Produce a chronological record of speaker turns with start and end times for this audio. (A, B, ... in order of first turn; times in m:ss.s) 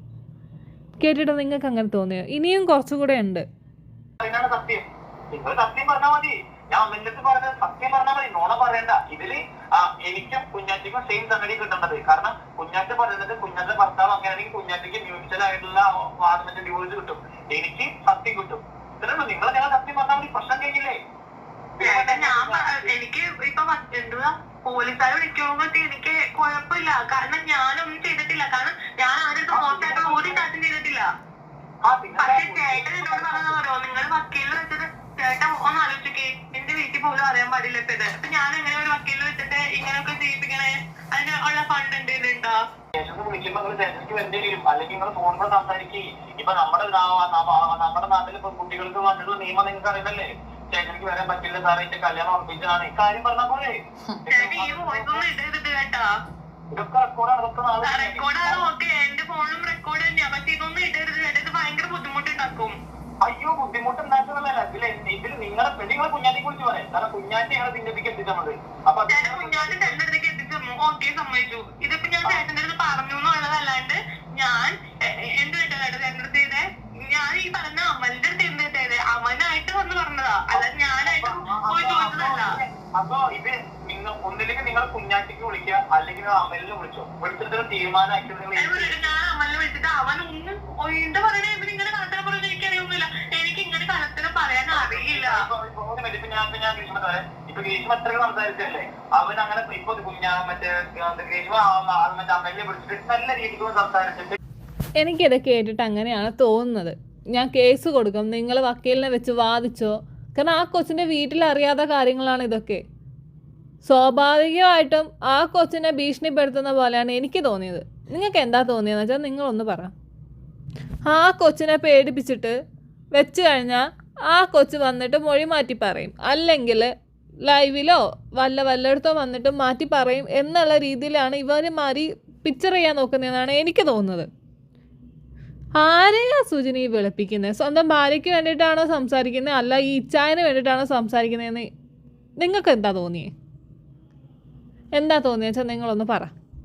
0:01.0-0:03.4 A
0:04.2-0:21.0 B
0:21.8-0:22.9 B
0:21.8-0:31.0 C
0:29.5-0:30.4 B
0:31.8-0:33.6 B
0:32.2-0:42.6 C
0:42.9-0:55.2 B
0:54.3-0:56.0 C
0:56.7-0:58.7 B
0:57.8-1:02.8 C
1:03.2-1:10.0 B
1:09.1-1:22.6 C
1:20.5-1:29.1 B
1:28.5-1:35.4 C
1:34.7-1:44.4 B
1:45.0-1:52.8 A
1:53.8-1:59.9 A
2:01.1-2:02.5 A
2:03.1-2:06.9 A
2:07.4-2:14.3 A
2:15.8-2:21.7 A
2:22.4-2:23.3 A
2:25.0-2:26.3 A